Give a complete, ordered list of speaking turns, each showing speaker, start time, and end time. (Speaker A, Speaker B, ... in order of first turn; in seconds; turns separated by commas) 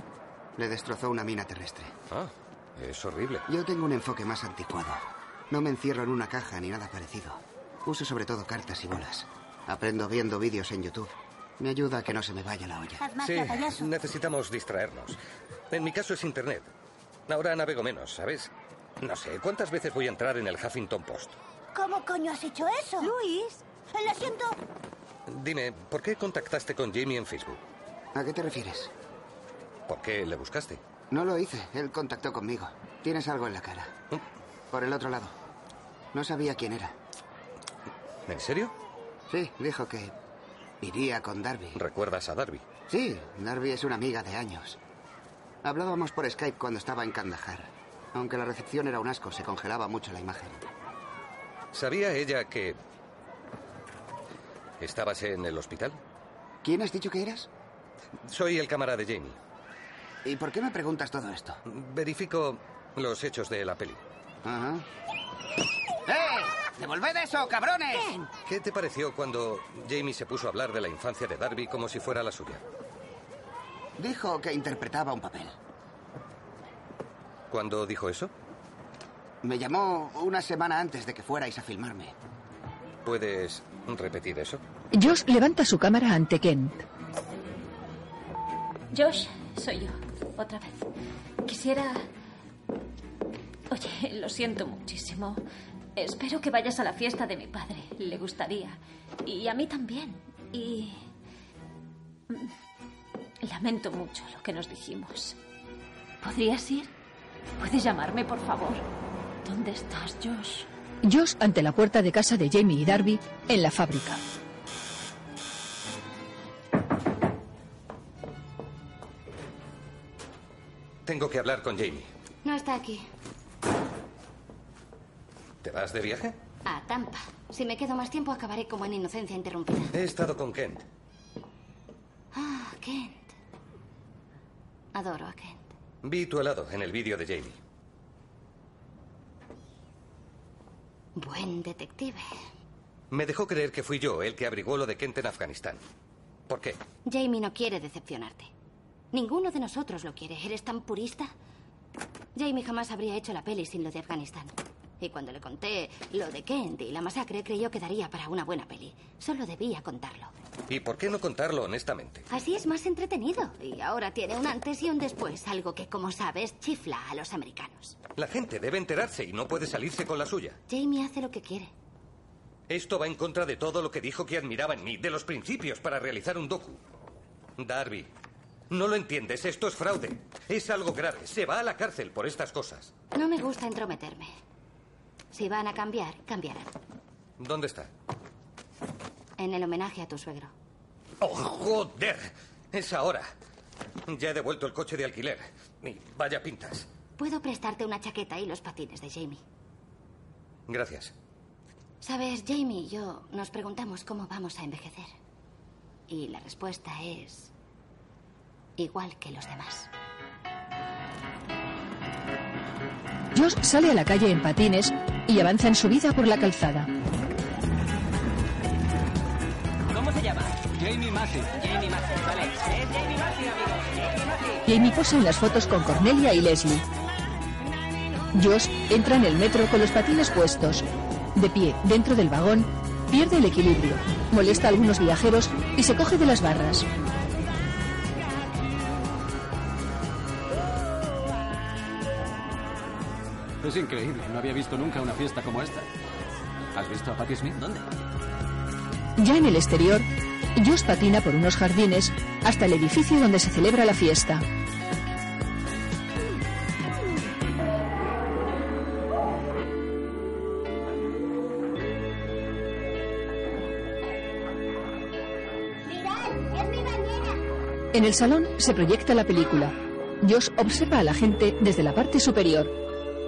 Speaker A: 0.6-1.9, Speaker B: 2.1-3.5, Speaker A: 3.5-13.1, Speaker C: 13.0-13.9, Speaker B: 13.2-15.2, Speaker B: 15.7-16.7, Speaker B: 17.3-21.4, Speaker C: 21.7-24.6, Speaker B: 25.3-27.6, Speaker A: 28.1-28.9, Speaker B: 29.9-30.8, Speaker A: 31.1-33.9, Speaker A: 34.7-35.3, Speaker A: 36.1-36.9, Speaker B: 38.3-38.7, Speaker A: 39.3-40.1, Speaker A: 40.8-41.8, Speaker B: 41.8-42.7, Speaker A: 42.9-44.8, Speaker A: 45.6-50.6, Speaker B: 51.7-52.8, Speaker B: 54.8-56.0, Speaker A: 56.6-57.5, Speaker B: 58.2-59.4, Speaker A: 60.2-61.6, Speaker B: 61.7-64.0, Speaker A: 64.4-64.8, Speaker A: 66.1-68.2, Speaker B: 68.5-72.6, Speaker A: 74.0-75.5, Speaker B: 77.5-78.3, Speaker A: 79.4-82.1, Speaker B: 83.0-84.6, Speaker D: 84.9-86.9, Speaker E: 88.9-90.9, Speaker E: 91.5-92.1, Speaker E: 93.7-95.4, Speaker E: 96.0-101.0, Speaker E: 103.4-105.4, Speaker E: 106.2-106.9, Speaker E: 107.6-108.8, Speaker E: 109.4-110.7, Speaker D: 111.0-114.2, Speaker B: 121.0-122.1, Speaker F: 122.4-123.0, Speaker B: 125.6-126.4, Speaker F: 126.7-129.9, Speaker B: 129.9-130.9, Speaker F: 132.3-133.3, Speaker F: 134.9-135.7, Speaker B: 136.0-137.6, Speaker F: 141.2-142.2, Speaker B: 143.1-145.8, Speaker B: 146.5-146.8, Speaker F: 147.1-148.5, Speaker F: 149.1-151.3, Speaker F: 152.3-160.3, Speaker B: 160.7-162.3, Speaker F: 162.3-168.0, Speaker B: 168.2-170.6, Speaker F: 170.7-171.7, Speaker B: 172.7-176.8, Speaker B: 177.6-178.1, Speaker B: 178.7-182.9, Speaker F: 183.1-184.3, Speaker F: 185.3-186.7, Speaker B: 187.4-187.9, Speaker F: 189.4-190.5, Speaker B: 191.2-193.3, Speaker B: 194.1-196.9, Speaker F: 197.2-199.4, Speaker B: 200.7-201.2, Speaker F: 202.0-205.1, Speaker F: 206.1-207.5, Speaker F: 208.8-209.9, Speaker D: 213.3-216.9, Speaker G: 219.9-220.6, Speaker H: 220.8-221.2, Speaker G: 221.5-224.6, Speaker D: 224.7-226.8, Speaker D: 228.3-236.9, Speaker H: 243.6-245.9, Speaker H: 246.7-247.9, Speaker D: 249.2-254.4, Speaker C: 265.8-267.4, Speaker D: 267.9-272.8